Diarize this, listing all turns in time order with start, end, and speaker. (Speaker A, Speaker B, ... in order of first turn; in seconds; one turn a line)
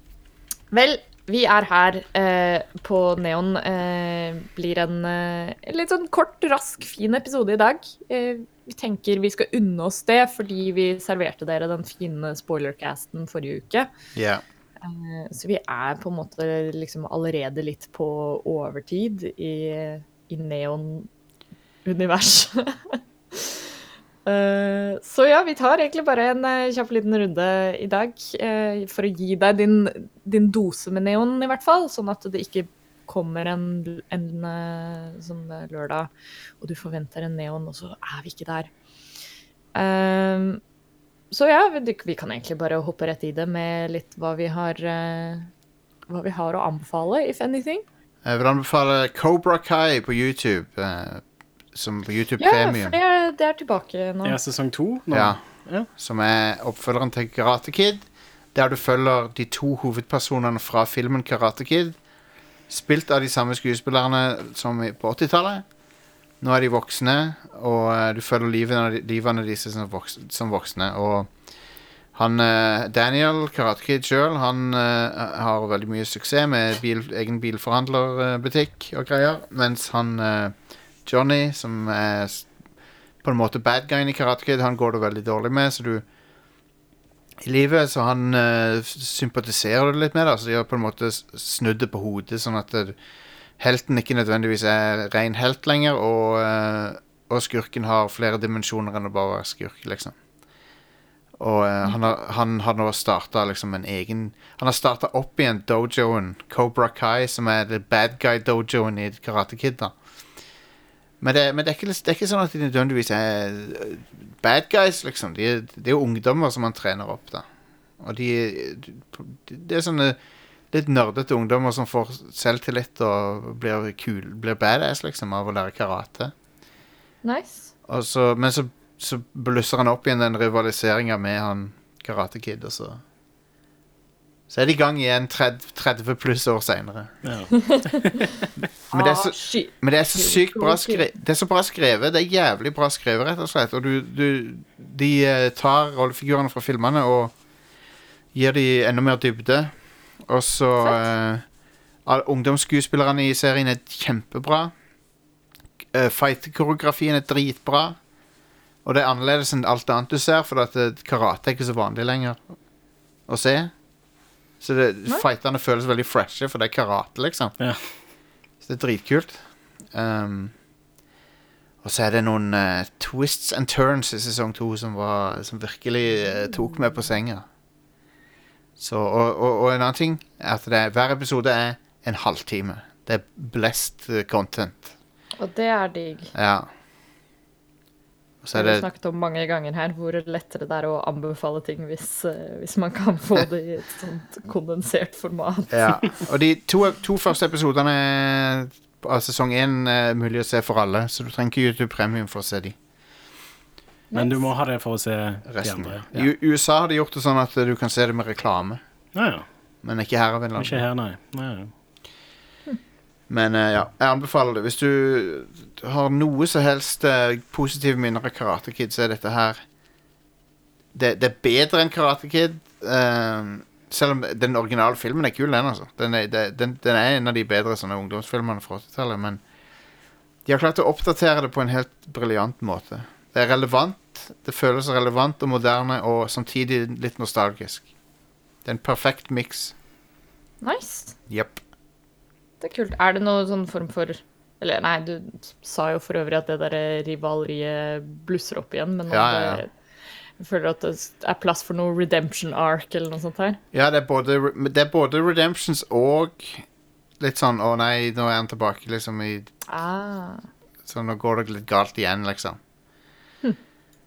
Speaker A: 0.7-13.9
Speaker B: 14.2-14.4
Speaker A: 14.8-21.1
Speaker A: 21.9-23.7
Speaker A: 24.3-36.1
Speaker A: 36.6-38.7
Speaker A: 39.8-40.6
Speaker A: 41.3-45.5
Speaker A: 46.1-47.9
Speaker B: 48.2-52.9
Speaker A: 52.4-54.4
Speaker C: 54.2-55.9
Speaker B: 55.1-62.0
Speaker B: 62.7-65.7
Speaker B: 66.4-71.3
Speaker B: 72.1-82.5
Speaker B: 83.2-86.0
Speaker B: 87.4-93.0
Speaker B: 93.6-100.2
Speaker B: 101.4-109.9
Speaker B: 111.2-117.5
Speaker B: 118.0-120.2
Speaker B: 120.7-126.3
Speaker A: 127.2-127.7
Speaker B: 127.9-133.0
Speaker B: 134.5-137.1
Speaker C: 137.2-138.2
Speaker A: 137.5-141.1
Speaker B: 138.9-147.3
Speaker B: 148.3-151.4
Speaker B: 152.1-154.7
Speaker B: 155.9-158.0
Speaker B: 158.8-162.4
Speaker B: 163.3-163.7
Speaker B: 164.6-167.6
Speaker B: 168.6-170.5
Speaker B: 171.8-177.4
Speaker B: 178.8-184.9
Speaker A: 185.4-186.3
Speaker B: 186.3-186.7
Speaker B: 188.4-188.9
Speaker A: 188.5-196.0
Speaker B: 195.7-202.8
Speaker A: 204.1-204.5
Speaker C: 204.2-206.3
Speaker B: 205.5-208.8
Speaker C: 209.2-209.4
Speaker B: 209.8-210.8
Speaker C: 210.6-211.7
Speaker B: 213.3-219.6
Speaker B: 220.9-229.4
Speaker B: 230.5-237.9
Speaker B: 238.7-239.8
Speaker A: 240.6-241.2
Speaker B: 241.3-241.6
Speaker A: 242.6-249.7
Speaker B: 249.1-249.6
Speaker A: 250.4-253.6
Speaker B: 253.7-256.7
Speaker B: 257.2-259.5
Speaker A: 259.7-260.5
Speaker B: 260.9-262.6